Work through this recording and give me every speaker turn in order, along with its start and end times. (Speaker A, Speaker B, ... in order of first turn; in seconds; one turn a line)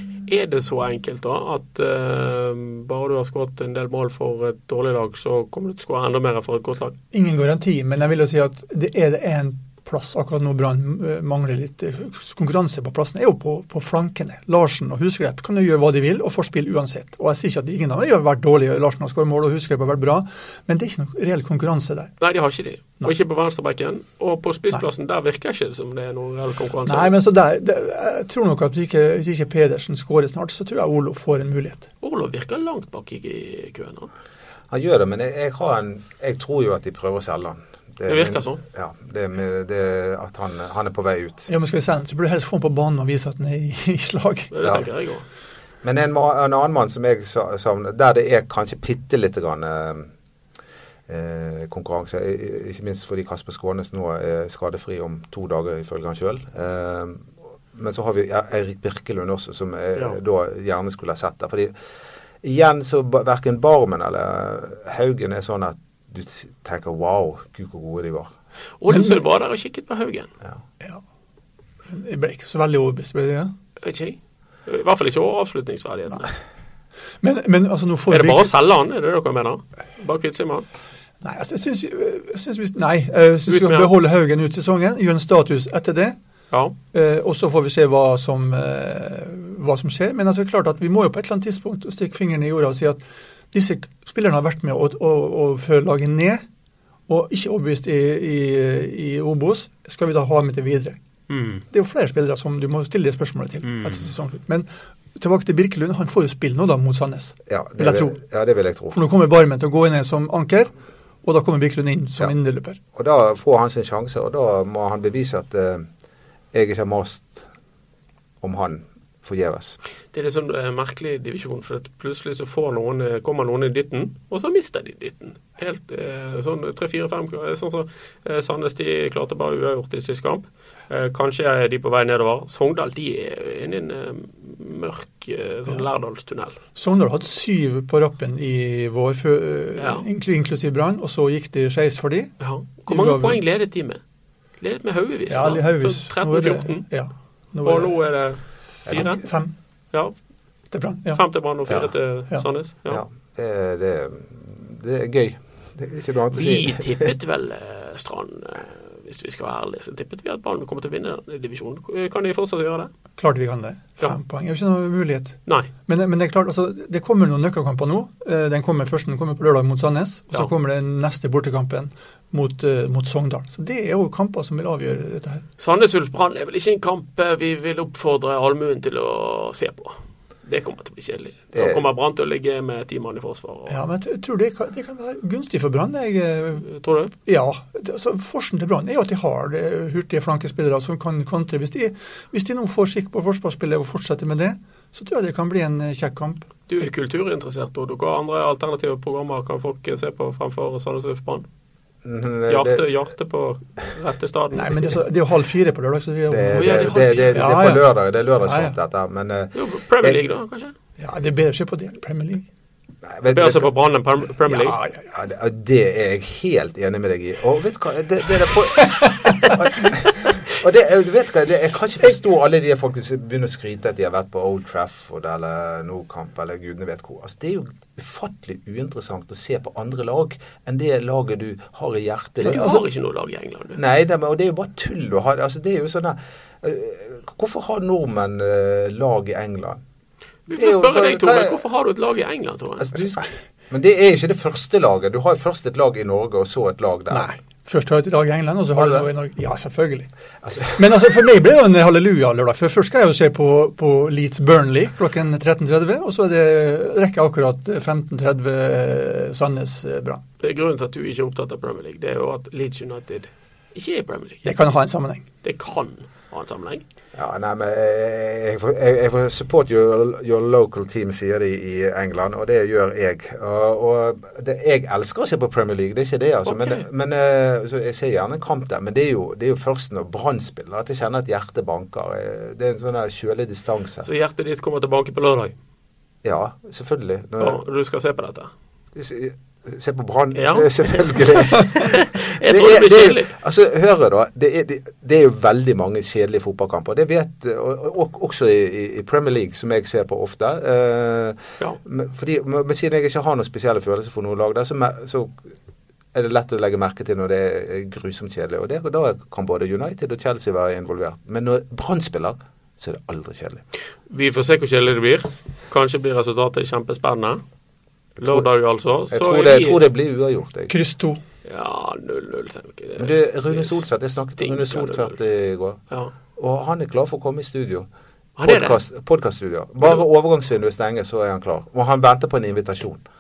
Speaker A: 0.3-7.0
Speaker B: 7.1-22.1
Speaker A: 22.2-27.1
Speaker B: 26.9-31.9
Speaker A: 32.0-34.1
Speaker C: 34.7-41.5
Speaker A: 38.1-38.6
Speaker B: 41.5-44.5
Speaker A: 44.5-45.2
Speaker C: 45.8-50.1
Speaker C: 51.1-61.7
Speaker C: 62.4-68.3
Speaker A: 68.8-70.3
Speaker B: 68.9-69.2
Speaker B: 71.9-73.5
Speaker A: 73.8-76.3
Speaker B: 77.2-78.5
Speaker A: 78.1-80.7
Speaker B: 81.2-86.2
Speaker A: 83.5-83.9
Speaker B: 86.9-96.4
Speaker B: 97.1-101.0
Speaker A: 101.3-101.6
Speaker B: 101.7-108.2
Speaker A: 103.7-104.1
Speaker C: 107.5-109.0
Speaker B: 108.9-110.7
Speaker B: 111.2-112.8
Speaker C: 112.9-115.9
Speaker C: 116.5-117.5
Speaker C: 118.4-119.8
Speaker A: 120.1-136.6
Speaker B: 136.8-142.3
Speaker A: 139.8-140.1
Speaker A: 142.4-144.0
Speaker B: 142.8-143.4
Speaker A: 144.6-146.9
Speaker B: 145.3-148.0
Speaker A: 147.6-149.2
Speaker C: 148.9-149.2
Speaker B: 148.9-149.6
Speaker B: 150.7-151.2
Speaker A: 151.1-153.0
Speaker C: 151.7-151.9
Speaker C: 152.9-157.1
Speaker A: 156.3-162.9
Speaker B: 163.2-175.4
Speaker A: 175.6-183.8
Speaker C: 181.5-181.8
Speaker B: 183.7-186.7
Speaker A: 186.7-187.1
Speaker B: 187.2-196.5
Speaker A: 196.7-201.5
Speaker C: 202.0-202.9
Speaker A: 202.5-205.0
Speaker B: 204.6-207.8
Speaker C: 206.3-210.2
Speaker A: 206.5-207.4
Speaker B: 208.4-208.7
Speaker A: 209.5-210.7
Speaker B: 211.0-212.5
Speaker C: 213.1-213.7
Speaker A: 213.3-214.8
Speaker B: 214.5-215.1
Speaker C: 215.1-232.7
Speaker B: 232.4-232.8
Speaker A: 232.5-233.8
Speaker C: 233.8-239.8
Speaker A: 240.5-242.9
Speaker C: 240.5-241.6
Speaker C: 242.8-247.3
Speaker B: 247.1-250.1
Speaker C: 248.8-249.1
Speaker C: 250.4-250.8
Speaker B: 250.7-260.2
Speaker A: 260.4-264.5
Speaker B: 264.4-265.2
Speaker A: 265.4-266.8
Speaker C: 267.1-284.1
Speaker A: 276.4-276.8
Speaker A: 284.1-285.6
Speaker C: 286.2-287.6
Speaker A: 287.4-288.5
Speaker C: 288.9-305.5
Speaker A: 290.4-293.3
Speaker C: 306.1-313.6
Speaker A: 314.1-317.4
Speaker C: 318.2-318.5
Speaker A: 318.2-319.8
Speaker C: 319.1-320.7
Speaker B: 320.7-321.2
Speaker A: 321.4-323.9
Speaker C: 323.0-325.8
Speaker A: 324.4-325.2
Speaker C: 326.4-327.9
Speaker A: 328.4-328.8
Speaker C: 328.4-333.0